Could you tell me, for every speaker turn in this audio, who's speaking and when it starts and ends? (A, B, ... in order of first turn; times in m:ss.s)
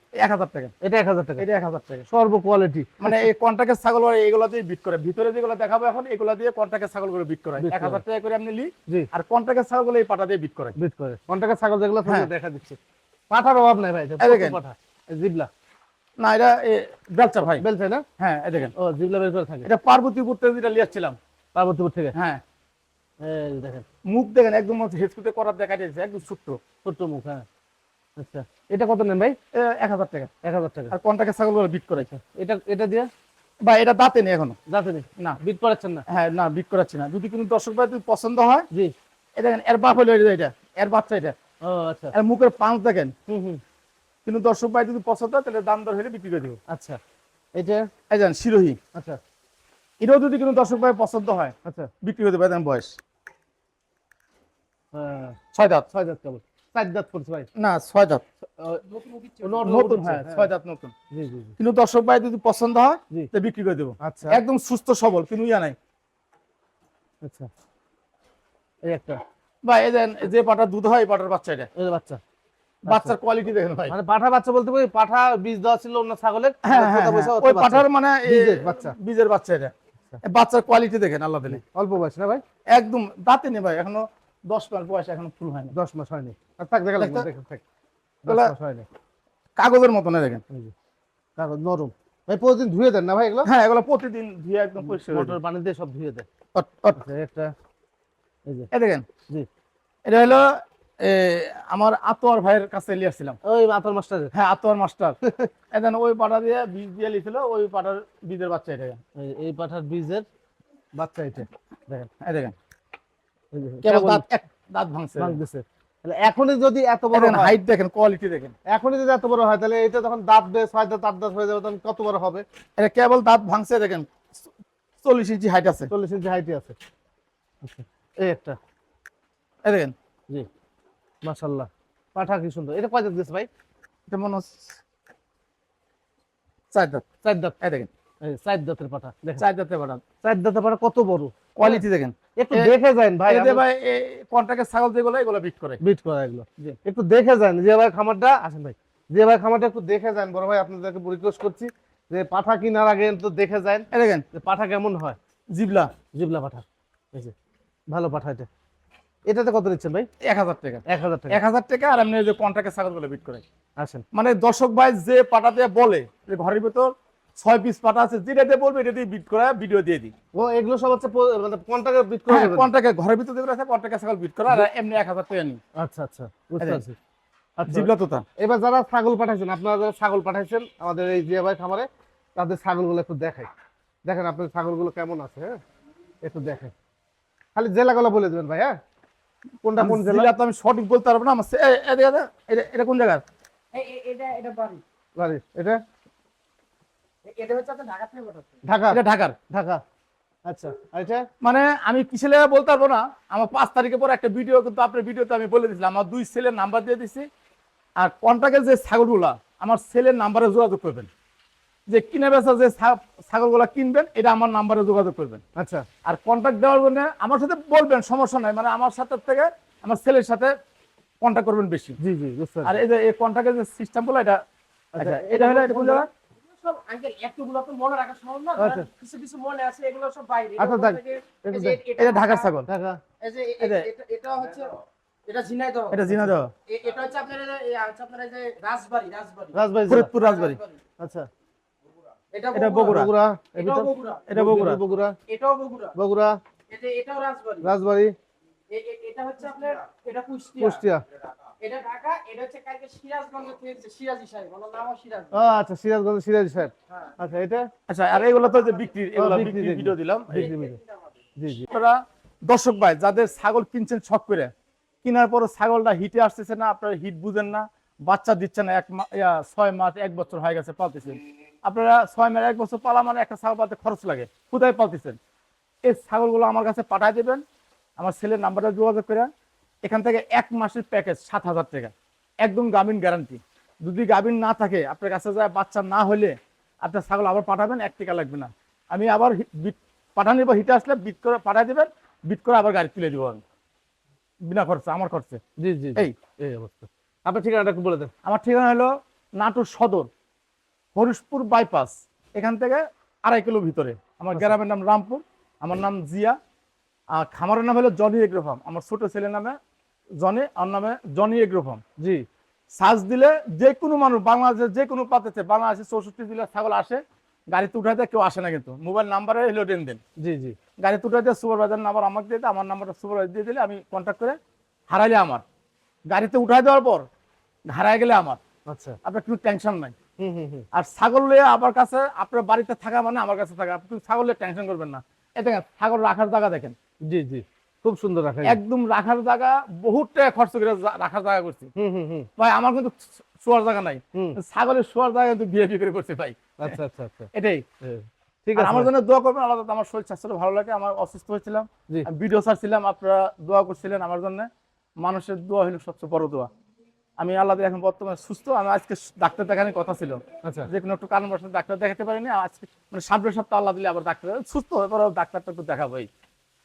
0:00.2-0:00.7 A
0:00.8-0:01.4 B
0:01.4-0:02.1 A
0:02.1-0:03.2 B
0:03.0-0:10.7 A
0:07.6-0:08.0 B
0:10.8-0:12.8 B
0:13.3-0:15.5 B
0:14.2-0:14.6 A
0:16.2-0:17.6 A
0:17.6-0:18.0 B
0:18.2-0:18.7 A
0:18.8-0:19.7 B
0:19.6-0:21.2 A
0:21.5-0:22.2 B
0:22.1-0:22.4 A
0:23.2-0:23.8 B
0:24.0-0:26.6 A
0:26.8-0:27.4 B
0:28.2-0:29.4 B
0:29.5-0:30.3 A
0:30.4-0:31.0 B
0:30.9-0:32.1 A
0:32.0-0:33.1 B
0:33.6-0:34.6 A
0:34.7-0:36.0 B
0:36.1-0:38.7 A
0:39.4-0:41.4 A
0:41.6-0:42.1 B
0:42.1-0:43.1 A
0:43.3-0:43.6 B
0:44.2-0:46.6 A
0:46.7-0:47.0 B
0:47.5-0:47.9 B
0:48.1-0:48.8 A
0:50.0-0:53.0 A
0:51.6-0:51.9 B
0:54.9-0:55.4 B
0:55.5-0:55.9 A
0:55.9-0:57.5 B
0:57.6-0:58.2 A
0:58.8-0:59.8 C
0:59.4-1:00.5 B
0:59.6-1:00.9 A
1:01.1-1:01.6 B
1:01.6-1:05.8 A
1:04.0-1:04.4 B
1:07.2-1:07.5 B
1:08.8-1:09.2 B
1:09.6-1:11.7 A
1:11.8-1:12.2 B
1:12.8-1:13.9 A
1:12.9-1:13.1 B
1:13.9-1:19.0 B
1:16.6-1:21.6 A
1:21.5-1:22.4 B
1:22.7-1:25.7 A
1:25.7-1:27.6 B
1:27.0-1:27.3 A
1:28.2-1:28.8 B
1:28.3-1:28.5 A
1:29.6-1:30.4 A
1:31.4-1:33.5 B
1:33.4-1:35.4 A
1:34.8-1:36.2 B
1:36.5-1:37.0 A
1:37.0-1:37.5 B
1:38.7-1:39.0 A
1:40.0-1:43.4 A
1:43.4-1:44.3 B
1:44.3-1:45.2 A
1:45.7-1:49.0 A
1:49.2-1:50.2 B
1:50.9-1:51.5 B
1:51.9-1:52.5 A
1:53.5-1:54.2 B
1:53.8-1:55.4 A
1:55.2-1:57.6 B
1:57.1-1:58.5 A
1:58.7-2:02.4 B
2:02.8-2:04.5 A
2:05.0-2:05.9 A
2:05.9-2:06.7 B
2:07.6-2:08.6 B
2:09.6-2:09.9 A
2:11.2-2:13.5 B
2:14.1-2:14.7 A
2:16.7-2:17.9 A
2:17.2-2:17.5 B
2:18.2-2:19.4 B
2:19.4-2:20.0 A
2:20.2-2:21.8 B
2:21.6-2:22.7 A
2:22.4-2:23.6 B
2:23.3-2:25.8 A
2:25.8-2:35.2 B
2:33.9-2:34.2 A
2:35.5-2:35.9 A
2:36.1-2:37.3 B
2:37.9-2:38.5 B
2:39.3-2:40.1 B
2:40.2-2:43.4 A
2:40.9-2:41.4 B
2:44.1-2:50.1 A
2:50.3-2:52.7 B
2:52.3-2:55.6 A
2:55.8-2:57.0 B
2:57.6-3:03.5 B
2:57.7-2:58.2 A
3:04.0-3:05.6 B
3:06.2-3:06.7 B
3:07.5-3:08.8 B
3:09.6-3:10.3 B
3:09.8-3:13.2 A
3:13.7-3:14.8 C
3:15.2-3:15.8 B
3:17.2-3:18.5 C
3:18.6-3:19.8 B
3:18.9-3:19.4 A
3:20.5-3:21.3 B
3:21.4-3:27.3 A
3:28.0-3:31.1 A
3:31.9-3:35.4 A
3:35.6-3:35.8 B
3:36.0-3:40.5 A
3:41.2-3:42.0 A
3:42.0-3:42.8 B
3:42.6-3:44.4 A
3:44.9-3:46.1 B
3:45.0-3:46.1 A
3:46.4-3:52.5 C
3:48.6-3:48.9 B
3:50.6-3:51.8 B
3:52.0-3:52.7 A
3:52.7-3:53.0 B
3:53.2-3:56.0 C
3:53.6-3:53.9 A
3:55.9-3:56.5 A
3:56.7-3:59.6 C
3:59.5-4:00.1 B
3:59.9-4:00.6 A
4:00.1-4:00.7 C
4:01.0-4:01.3 B
4:02.3-4:03.0 C
4:02.5-4:03.1 A
4:02.8-4:05.2 B
4:03.6-4:04.3 C
4:04.3-4:04.8 A
4:05.3-4:05.9 C
4:05.9-4:06.4 B
4:06.7-4:07.7 C
4:07.6-4:08.1 B
4:08.7-4:10.8 C
4:10.6-4:11.0 B
4:11.6-4:15.4 C
4:15.3-4:17.7 B
4:17.9-4:20.5 A
4:19.2-4:20.8 B
4:20.4-4:20.8 C
4:21.4-4:21.7 B
4:21.7-4:24.5 A
4:25.0-4:35.2 A
4:35.8-4:37.4 A
4:38.0-4:39.3 A
4:39.8-4:53.4 A
4:54.4-4:55.4 A
4:55.6-4:58.1 B
4:58.2-5:00.1 A
5:00.9-5:06.4 A
5:07.1-5:09.6 A
5:10.2-5:11.8 A
5:12.0-5:12.2 B
5:12.7-5:20.0 A
5:20.2-5:20.6 B
5:20.8-5:24.4 A
5:24.9-5:25.4 A
5:26.1-5:27.1 A
5:27.7-5:28.4 A
5:28.7-5:29.0 B
5:29.0-5:29.9 A
5:30.2-5:30.6 B
5:30.7-5:36.8 A
5:37.1-5:38.6 B
5:38.4-5:41.7 A
5:41.8-5:42.3 B
5:42.4-5:46.8 A
5:44.1-5:44.4 B
5:46.6-5:48.9 B
5:47.3-5:47.6 A
5:48.6-5:54.5 A
5:55.0-5:56.5 A
5:57.2-6:06.1 A
6:00.4-6:00.7 B